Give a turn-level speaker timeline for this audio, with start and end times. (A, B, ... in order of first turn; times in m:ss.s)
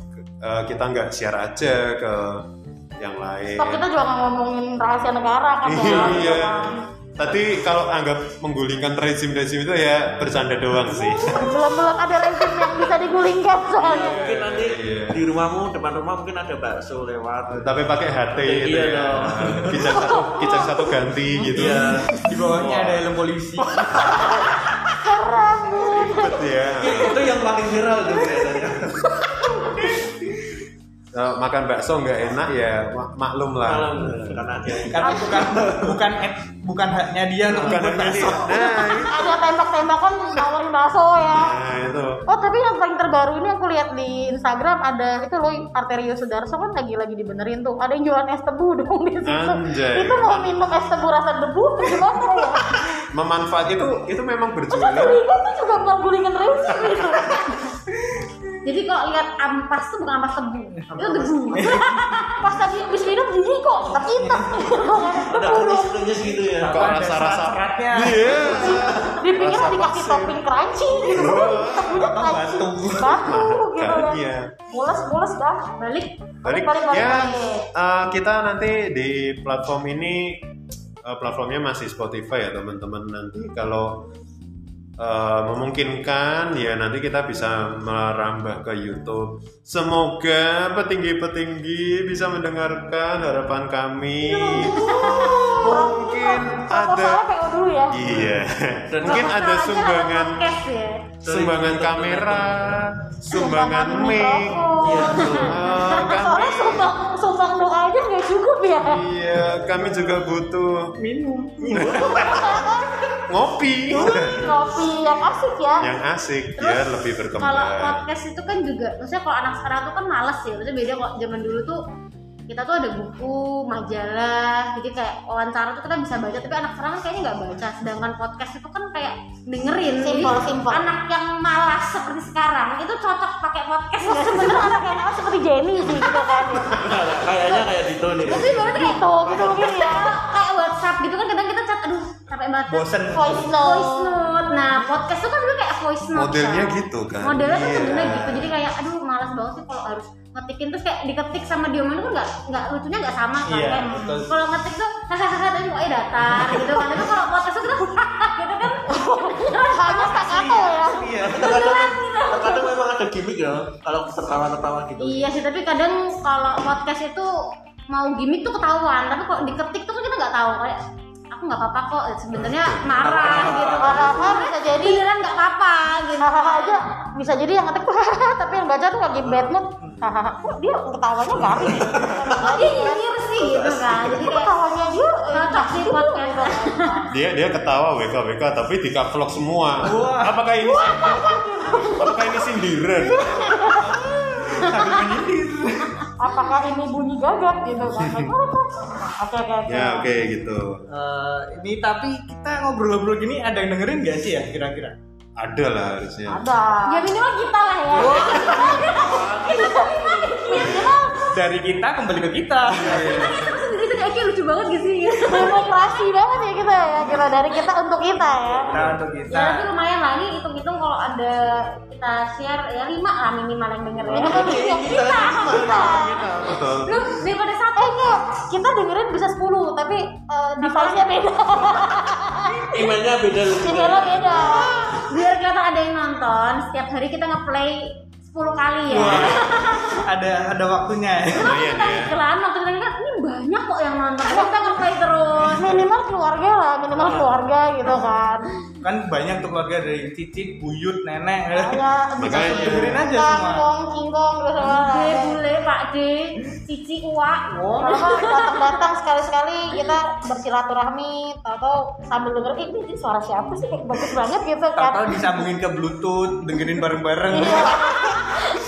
0:00.4-0:03.9 A
0:03.6-0:06.8 B
0:05.6-0:11.6 A
0:05.8-0:06.4 C
0:11.0-0:14.3 B
0:13.8-0:20.0 C
0:13.8-0:15.2 A
0:17.5-0:22.0 A
0:20.0-0:20.8 B
0:21.4-0:24.1 D
0:21.5-0:23.0 C
0:23.6-0:24.5 C
0:25.0-0:26.5 B
0:25.8-0:27.3 A
0:26.7-0:29.6 C
0:31.1-0:34.4 A
0:33.6-0:36.0 C
0:34.9-0:38.8 D
0:37.5-0:39.4 A
0:38.5-0:41.6 B
0:41.3-0:42.2 A
0:42.3-0:52.8 B
0:49.3-0:50.6 A
0:53.1-0:55.2 A
0:54.7-0:57.6 B
0:56.7-0:57.2 A
0:58.0-0:58.3 D
0:58.6-1:02.4 E
1:00.9-1:02.3 D
1:00.9-1:01.4 C
1:02.4-1:06.0 B
1:04.2-1:04.8 D
1:05.1-1:07.1 C
1:06.6-1:10.4 A
1:06.7-1:09.1 D
1:08.5-1:15.7 B
1:11.1-1:12.1 A
1:11.2-1:13.2 D
1:13.1-1:14.5 A
1:15.8-1:16.2 E
1:16.4-1:17.7 B
1:16.4-1:20.5 A
1:21.0-1:24.1 A
1:25.0-1:37.3 A
1:34.3-1:38.0 B
1:34.6-1:35.6 E
1:37.9-1:40.6 A
1:38.0-1:39.4 C
1:39.0-1:41.1 E
1:41.2-1:42.8 C
1:41.2-1:46.9 A
1:43.3-1:49.0 B
1:44.8-1:45.6 C
1:45.2-1:45.5 E
1:48.8-1:50.9 A
1:51.0-1:52.0 D
1:51.7-1:52.7 C
1:51.7-1:52.6 A
1:51.8-1:52.9 B
1:53.3-1:54.4 A
1:53.9-1:55.9 B
1:54.0-1:54.6 D
1:55.8-1:58.1 A
1:56.6-2:01.8 E
2:02.5-2:15.0 E
2:10.0-2:10.9 B
2:14.0-2:17.6 B
2:16.7-2:18.7 C
2:18.2-2:40.3 E
2:18.4-2:20.3 B
2:19.2-2:19.7 C
2:22.7-2:23.5 D
2:23.1-2:24.2 B
2:26.1-2:28.5 A
2:33.4-2:34.3 D
2:36.4-2:36.9 D
2:38.9-2:41.1 B
2:40.1-2:41.5 D
2:41.2-2:45.4 C
2:41.3-2:42.8 E
2:45.0-2:47.3 E
2:47.9-2:56.8 E
2:52.5-2:53.0 A
2:52.9-2:54.3 C
2:53.3-2:55.0 B
2:56.2-3:03.1 B
2:59.2-2:59.6 C
3:01.7-3:02.3 C
3:02.3-3:04.6 E
3:03.4-3:04.4 C
3:04.2-3:07.0 B
3:05.3-3:07.1 E
3:07.1-3:13.6 A
3:09.8-3:10.4 D
3:10.6-3:12.2 B
3:13.2-3:13.8 E
3:13.4-3:13.9 B
3:13.8-3:16.1 D
3:14.5-3:15.0 E
3:16.2-3:20.1 B
3:18.0-3:18.3 A
3:19.7-3:20.8 A
3:20.9-3:25.0 D
3:25.4-3:26.4 A
3:26.3-3:27.1 B
3:26.9-3:31.2 E
3:27.9-3:30.7 C
3:28.0-3:28.6 D
3:28.1-3:28.6 A
3:28.4-3:31.3 B
3:30.5-3:30.9 A
3:31.3-3:33.5 D
3:33.0-3:35.7 E
3:35.2-3:38.7 B
3:38.6-3:39.0 C
3:38.7-3:39.7 D
3:39.3-3:48.2 E
3:44.1-3:45.8 C
3:44.1-3:46.2 B
3:45.3-3:47.2 A
3:47.8-3:53.0 B
3:50.6-3:51.1 E
3:52.7-3:55.0 C
3:53.5-3:55.0 B
3:54.9-4:00.0 E
3:58.9-4:01.6 D
3:59.0-3:59.5 A
4:01.4-4:02.2 A
4:01.4-4:05.8 E
4:04.3-4:04.8 B
4:05.4-4:08.5 B
4:07.0-4:07.4 C
4:08.8-4:13.7 D
4:11.5-4:15.4 B
4:12.2-4:13.0 A
4:14.6-4:18.7 E
4:17.5-4:18.0 D
4:17.8-4:25.4 B
4:24.8-4:27.9 D
4:27.3-4:28.4 B